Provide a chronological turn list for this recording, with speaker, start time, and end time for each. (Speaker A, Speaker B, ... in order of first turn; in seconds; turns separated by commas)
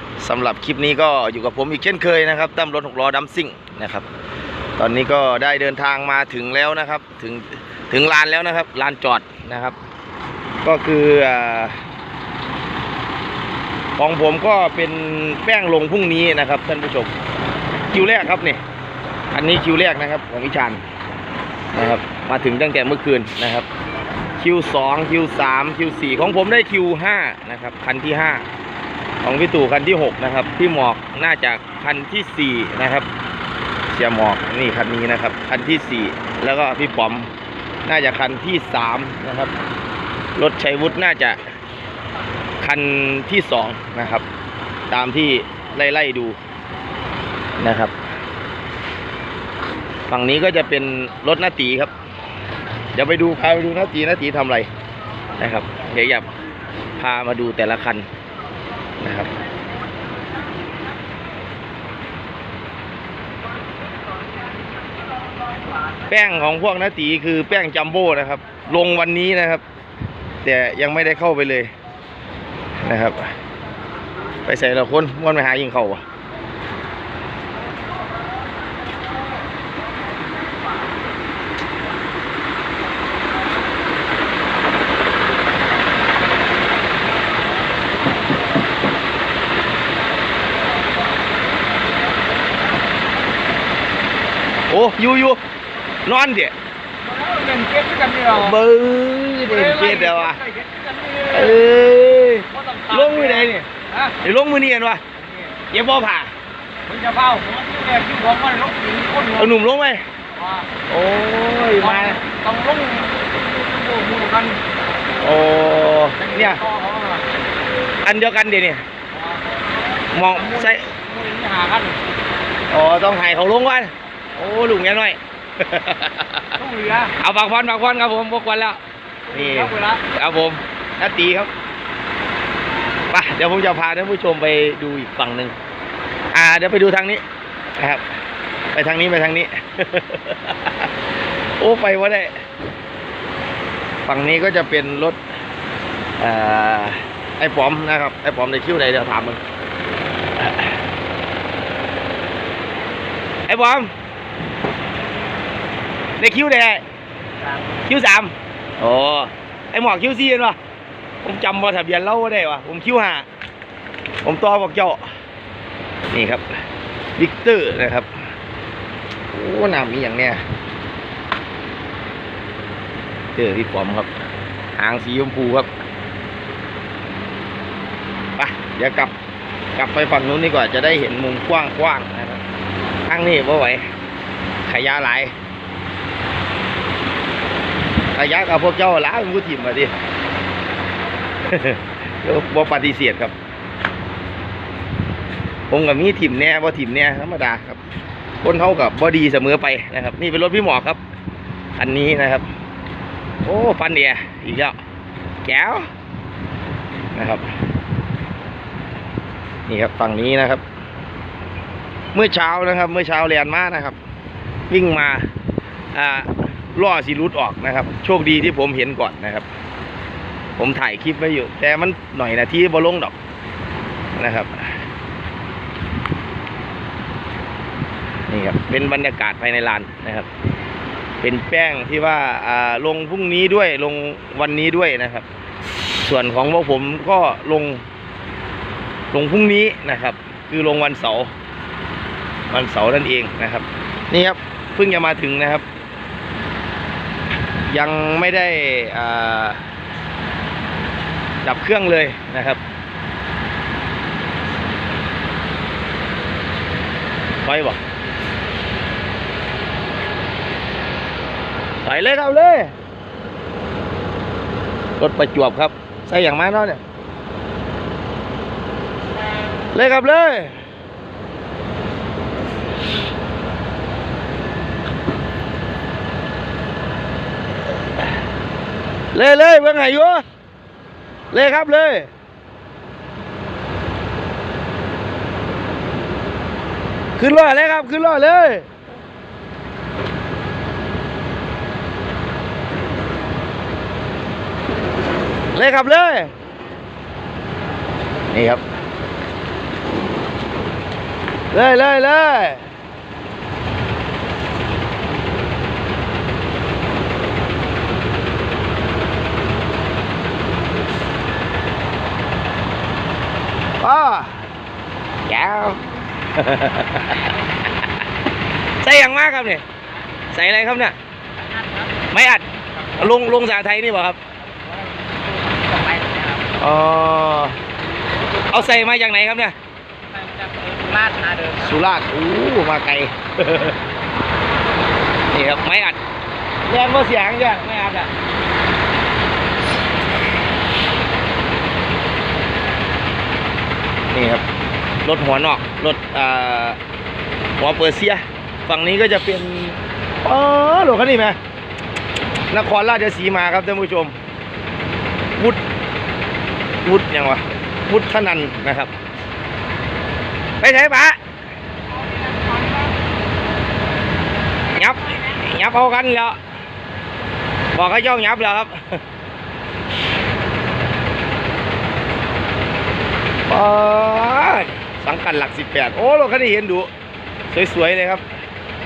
Speaker A: 0.2-4.0, Speaker A: 4.8-9.8, Speaker A: 10.6-11.8, Speaker A: 14.0-17.1, Speaker A: 17.9-18.6, Speaker A: 19.3-20.8, Speaker A: 21.7-23.7, Speaker A: 24.4-28.4, Speaker A: 29.2-33.1, Speaker A: 33.9-37.3, Speaker A: 37.9-39.5, Speaker A: 40.4-41.4, Speaker A: 42.6-44.2, Speaker A: 44.9-46.4, Speaker A: 47.6-47.9, Speaker A: 50.1-51.9, Speaker A: 52.9-54.7, Speaker A: 55.4-56.2, Speaker A: 57.0-58.1, Speaker A: 59.0-59.3, Speaker A: 66.1-69.6, Speaker A: 70.4-71.7, Speaker A: 72.8-73.3, Speaker A: 74.5-76.0, Speaker A: 94.7-95.4, Speaker A: 96.0-96.5, Speaker B: 97.0-98.5, Speaker A: 98.3-100.4, Speaker B: 99.5-101.6, Speaker A: 101.3-103.7, Speaker B: 102.5-104.2, Speaker A: 104.2-105.0, Speaker A: 105.7-106.3, Speaker B: 106.9-109.5, Speaker A: 109.3-110.0, Speaker B: 110.4-110.7, Speaker A: 110.9-112.2, Speaker B: 111.8-114.6, Speaker A: 115.2-116.6, Speaker B: 116.2-117.2, Speaker A: 118.0-118.8, Speaker B: 119.2-119.4, Speaker A: 120.1-120.9, Speaker B: 120.4-122.0, Speaker A: 122.7-126.6, Speaker B: 126.6-127.1, Speaker A: 127.2-128.8, Speaker A: 129.3-131.5, Speaker B: 129.3-130.0, Speaker A: 133.1-135.6, Speaker A: 136.3-137.2, Speaker A: 137.8-138.0, Speaker A: 138.7-140.9, Speaker A: 141.6-142.3, Speaker A: 144.1-145.2, Speaker A: 146.2-149.4, Speaker A: 150.4-150.7, Speaker A: 153.5-153.9, Speaker A: 156.2-156.8, Speaker A: 157.9-160.6, Speaker A: 161.2-163.2, Speaker A: 164.2-165.1, Speaker A: 166.1-166.4, Speaker A: 167.2-168.1, Speaker A: 169.3-170.4, Speaker A: 173.3-174.1, Speaker A: 174.8-175.7, Speaker A: 178.4-179.1, Speaker A: 179.8-182.4, Speaker A: 183.1-183.8, Speaker A: 184.7-185.3, Speaker A: 188.1-189.9, Speaker A: 191.4-193.3, Speaker A: 195.7-197.8, Speaker A: 198.4-201.0, Speaker A: 201.8-202.4, Speaker A: 203.4-204.8, Speaker A: 205.4-205.9, Speaker A: 207.1-207.4, Speaker A: 209.7-210.6, Speaker A: 212.1-214.0, Speaker A: 214.7-215.3, Speaker A: 215.9-219.4, Speaker A: 220.6-223.1, Speaker A: 224.2-224.7, Speaker A: 228.3-230.3, Speaker A: 231.2-235.2, Speaker A: 236.0-237.8, Speaker A: 239.1-241.3, Speaker A: 242.5-245.6, Speaker A: 247.7-249.6, Speaker A: 251.4-252.6, Speaker A: 257.4-257.8, Speaker A: 261.8-262.7, Speaker A: 265.0-266.8, Speaker A: 269.7-270.6, Speaker A: 279.1-280.2, Speaker A: 281.3-282.1, Speaker A: 287.2-288.7, Speaker A: 295.5-296.3, Speaker A: 298.3-298.6, Speaker A: 301.5-302.6, Speaker A: 313.8-314.4, Speaker A: 315.2-315.8, Speaker A: 316.3-317.2, Speaker A: 318.8-319.6, Speaker A: 320.3-320.9, Speaker B: 321.4-321.9, Speaker A: 322.1-324.2, Speaker B: 324.6-326.5, Speaker A: 326.6-327.6, Speaker A: 328.5-329.6, Speaker B: 330.1-331.7, Speaker A: 331.6-333.8, Speaker A: 335.3-336.0, Speaker A: 336.7-338.1, Speaker A: 344.1-344.4, Speaker A: 345.0-346.8, Speaker A: 347.6-351.4, Speaker A: 352.5-354.1, Speaker A: 356.8-358.9, Speaker A: 360.6-361.2, Speaker A: 364.8-366.4, Speaker A: 367.7-369.0, Speaker A: 373.5-376.9, Speaker A: 377.5-378.2